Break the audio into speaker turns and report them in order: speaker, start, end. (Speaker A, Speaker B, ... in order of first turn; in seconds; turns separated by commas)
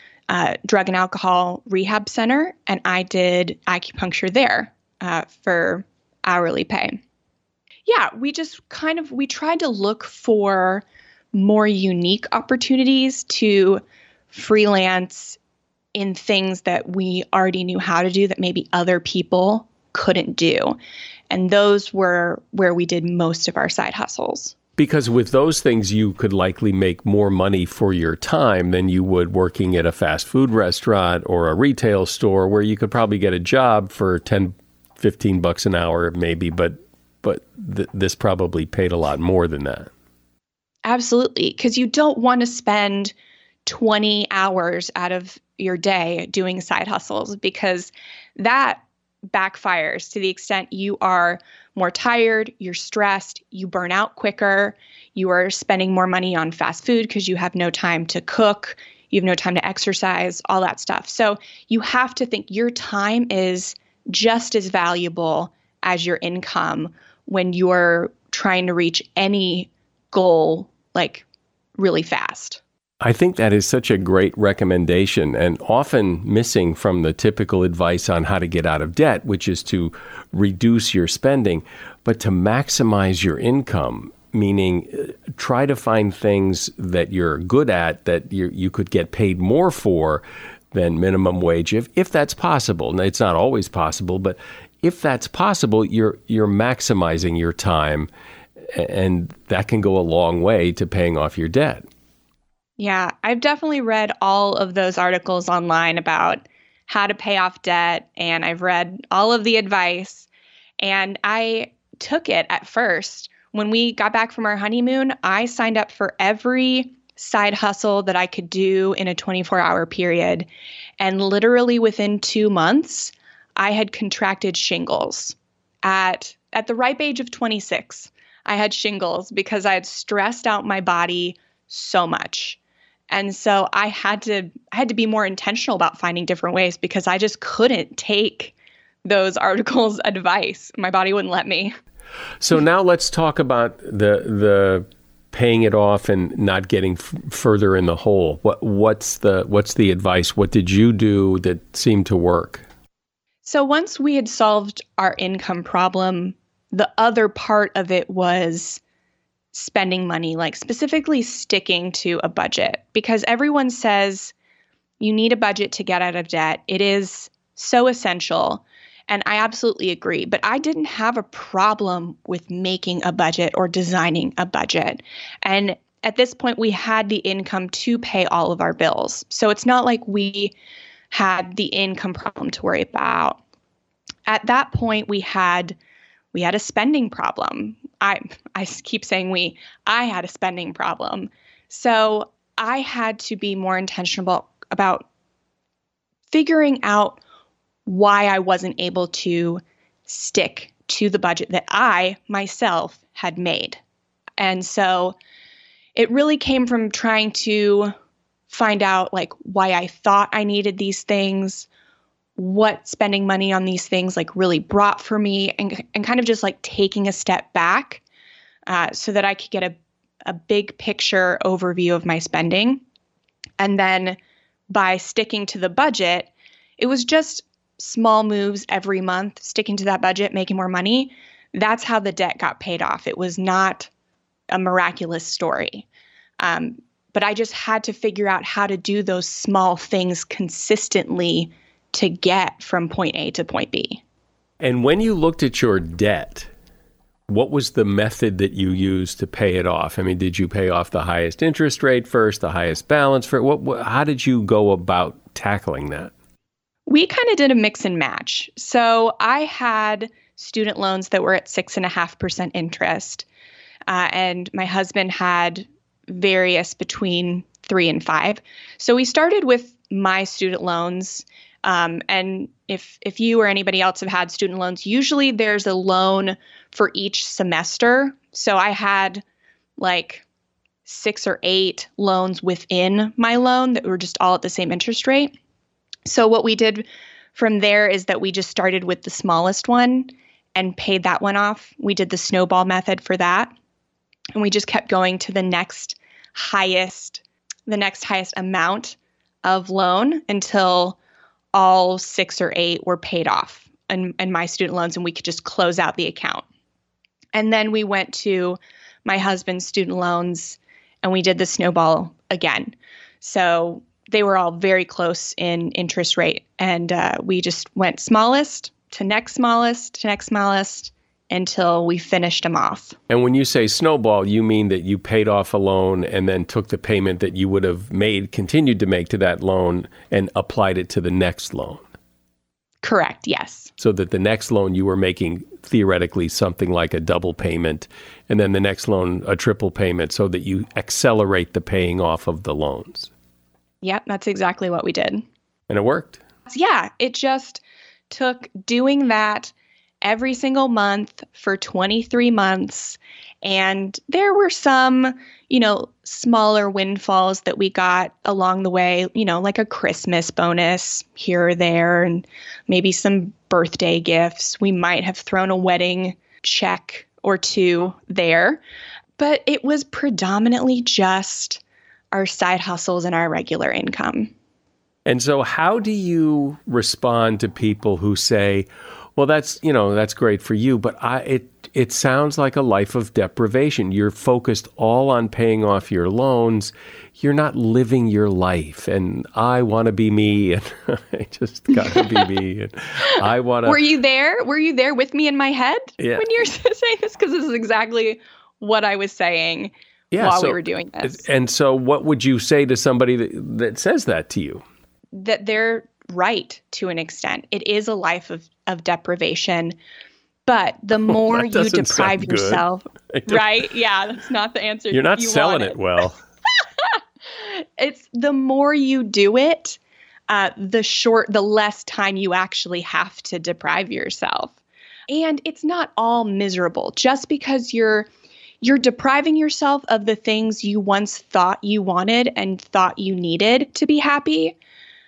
Speaker A: 0.3-7.0, Speaker A: 7.8-15.4, Speaker A: 15.9-20.8, Speaker A: 21.3-24.5, Speaker B: 24.8-39.9, Speaker A: 40.8-43.1, Speaker A: 43.6-71.2, Speaker A: 71.8-72.6, Speaker B: 73.0-98.1, Speaker B: 98.7-101.8, Speaker A: 102.8-110.3, Speaker A: 110.8-120.5, Speaker A: 121.0-132.6, Speaker A: 133.1-138.5, Speaker A: 139.0-141.7, Speaker B: 142.4-152.6, Speaker A: 153.4-158.8, Speaker A: 159.5-164.3, Speaker A: 165.0-180.5, Speaker A: 181.1-183.4, Speaker A: 184.3-185.8, Speaker A: 186.3-195.0, Speaker A: 196.3-197.2, Speaker A: 197.8-203.8, Speaker A: 204.4-205.1, Speaker A: 205.9-207.9, Speaker A: 208.5-211.7, Speaker A: 212.4-218.0, Speaker A: 218.7-222.8, Speaker A: 223.6-224.2, Speaker A: 224.7-233.9, Speaker A: 234.5-235.8, Speaker A: 236.4-244.0, Speaker B: 244.6-246.5, Speaker B: 247.3-256.1, Speaker A: 256.9-263.2, Speaker A: 263.9-279.2, Speaker A: 279.8-280.2, Speaker A: 280.9-285.3, Speaker A: 286.1-293.5, Speaker A: 294.3-301.0, Speaker A: 301.5-306.4, Speaker A: 307.3-322.9, Speaker B: 323.1-331.8, Speaker A: 332.8-333.7, Speaker B: 333.8-343.1, Speaker A: 343.8-345.2, Speaker B: 345.7-346.2, Speaker A: 346.5-368.6, Speaker A: 369.2-371.6, Speaker A: 372.1-374.3, Speaker B: 375.1-393.8, Speaker A: 391.8-392.0, Speaker A: 393.6-401.2, Speaker B: 396.0-396.2, Speaker B: 400.1-404.6, Speaker A: 405.1-409.7, Speaker A: 410.4-415.8, Speaker B: 411.1-413.6, Speaker B: 414.9-416.2, Speaker A: 416.8-419.8, Speaker A: 420.3-424.5, Speaker A: 425.1-428.1, Speaker A: 428.6-434.6